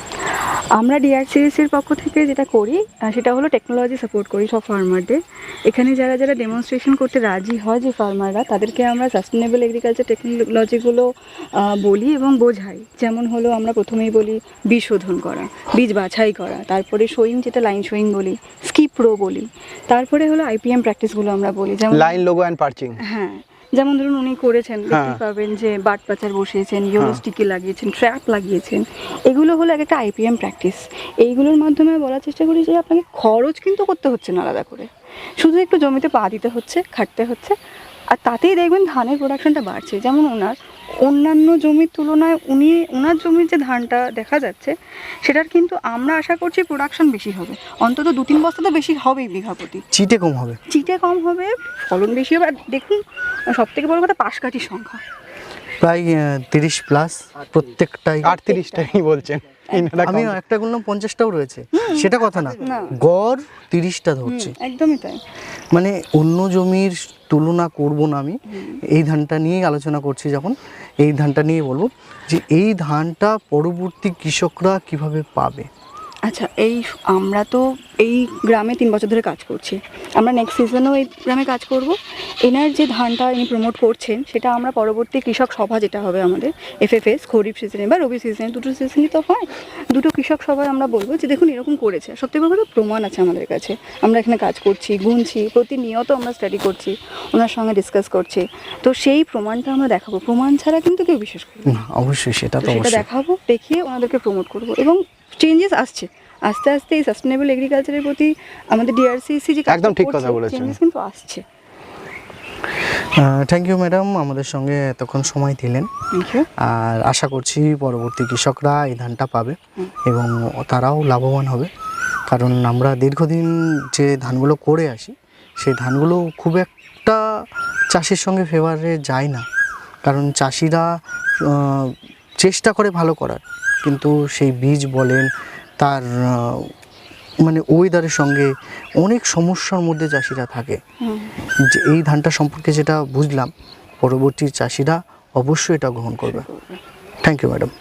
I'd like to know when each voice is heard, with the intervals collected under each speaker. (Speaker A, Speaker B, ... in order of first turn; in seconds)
Speaker A: 0.8-22.2, 23.0-37.5, 38.1-49.8, 50.7-53.0, 53.5-55.0, 58.5-58.9, 61.7-63.0, 64.2-65.2, 68.5-68.8, 76.3-101.8, 102.6-111.4, 116.1-116.5, 141.0-141.3, 146.2-146.8
Speaker B: 21.9-23.0, 24.9-25.2, 58.2-60.4, 109.7-110.8
Speaker C: 49.9-50.6, 55.8-58.4, 59.9-64.5, 65.7-75.7, 101.7-103.0, 113.1-115.9, 116.6-121.7, 122.3-129.4, 130.0-130.9, 131.4-136.7, 137.4-140.8, 141.7-146.4, 147.2-147.7